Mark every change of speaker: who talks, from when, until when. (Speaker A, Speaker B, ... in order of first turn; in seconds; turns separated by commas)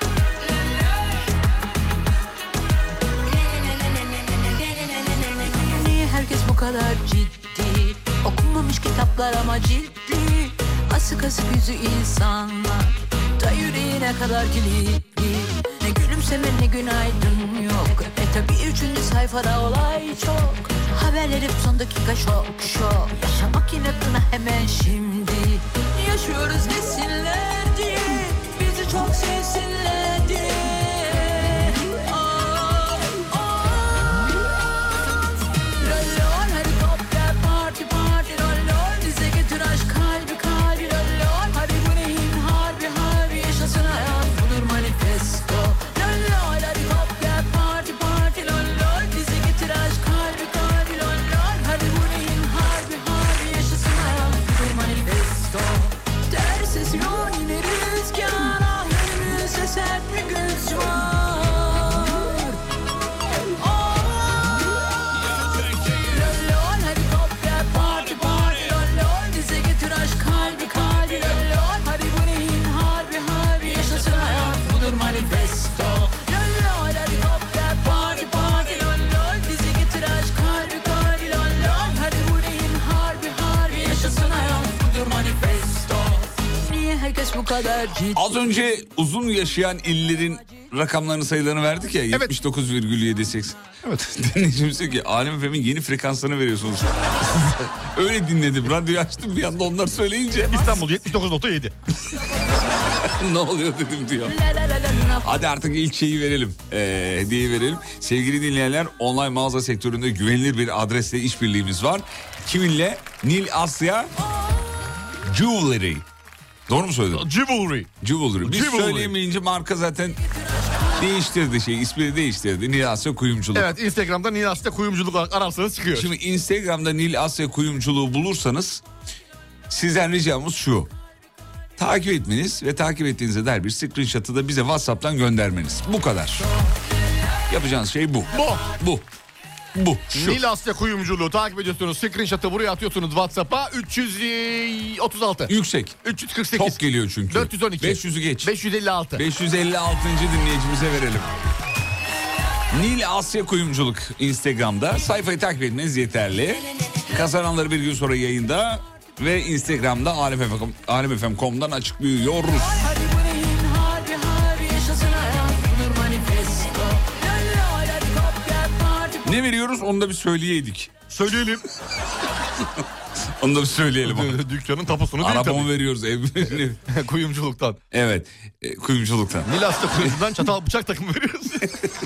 Speaker A: 5.5-34.3, Speaker A: 35.8-62.6, Speaker A: 63.6-64.6, Speaker B: 65.2-66.3, Speaker A: 65.4-88.4, Speaker B: 88.1-100.8, Speaker C: 100.5-101.7, Speaker B: 102.9-104.4, Speaker A: 104.2-105.4, Speaker B: 105.2-114.1, Speaker B: 115.2-116.1, Speaker B: 116.7-117.3, Speaker C: 117.1-117.9, Speaker B: 118.0-120.2, Speaker C: 118.4-119.1, Speaker A: 120.4-121.0, Speaker B: 121.0-123.7, Speaker C: 123.5-126.1, Speaker B: 125.9-128.8, Speaker B: 129.7-130.9, Speaker B: 131.8-136.5, Speaker B: 137.5-139.1, Speaker C: 138.3-138.6, Speaker B: 139.7-140.4, Speaker C: 140.1-145.5, Speaker B: 145.5-146.0, Speaker C: 146.0-149.2, Speaker B: 146.5-148.5, Speaker B: 149.1-151.3, Speaker B: 152.7-162.9, Speaker A: 162.6-169.3, Speaker B: 169.2-170.9, Speaker C: 171.1-171.6, Speaker B: 172.6-174.4, Speaker C: 174.0-175.7, Speaker B: 175.2-176.8, Speaker C: 176.9-177.8, Speaker B: 177.9-180.3, Speaker C: 179.4-181.8